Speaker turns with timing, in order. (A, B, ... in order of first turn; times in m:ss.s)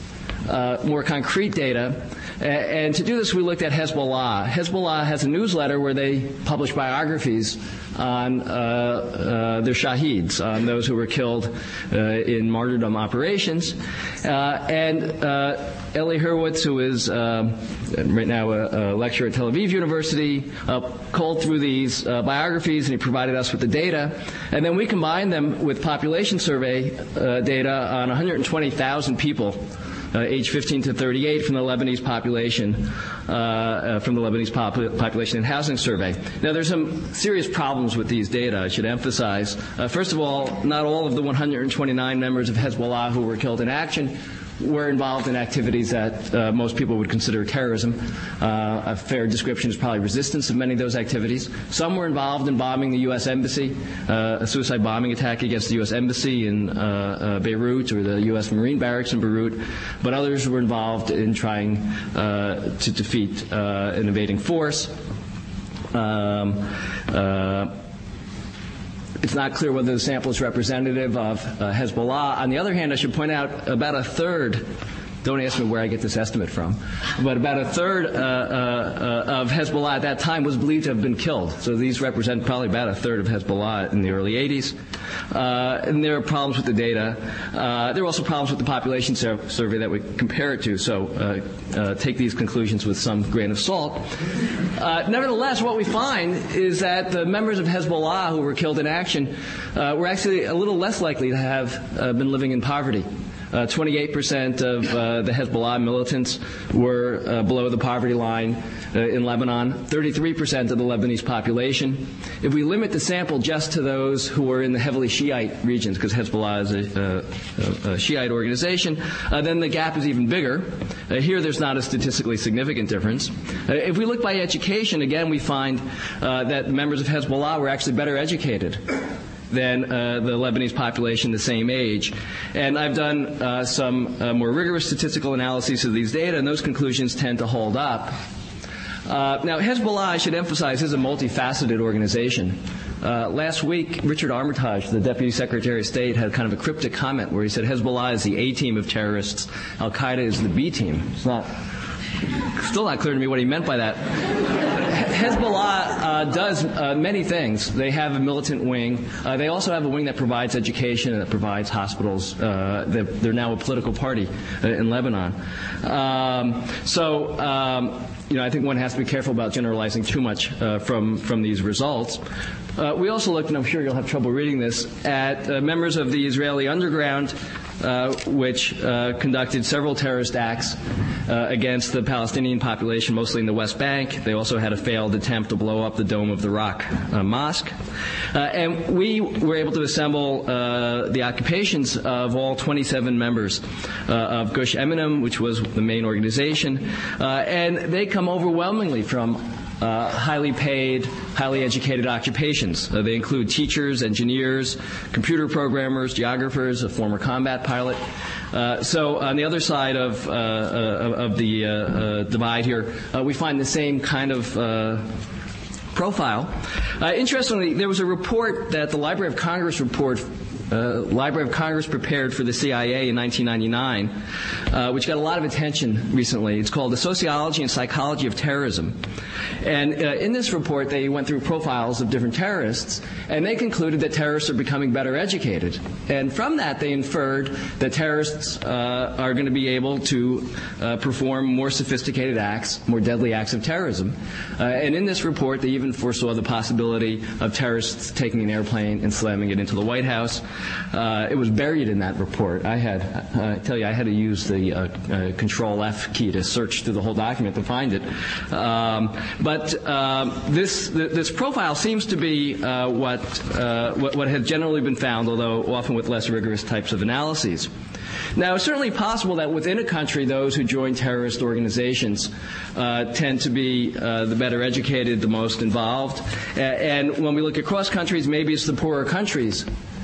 0:00.4-1:04.9 A
1:05.9-1:07.7 A
1:09.2-1:14.7 A
1:15.2-1:24.8 A
1:25.3-1:34.1 A
1:34.7-2:08.8 A
2:09.5-2:18.2 A
2:19.1-2:31.5 A
2:32.6-2:52.2 A
2:52.7-3:07.8 A
3:08.3-3:35.1 A
3:35.9-3:44.2 A
3:44.7-3:49.0 A
3:49.6-4:27.7 A
4:28.4-4:39.7 A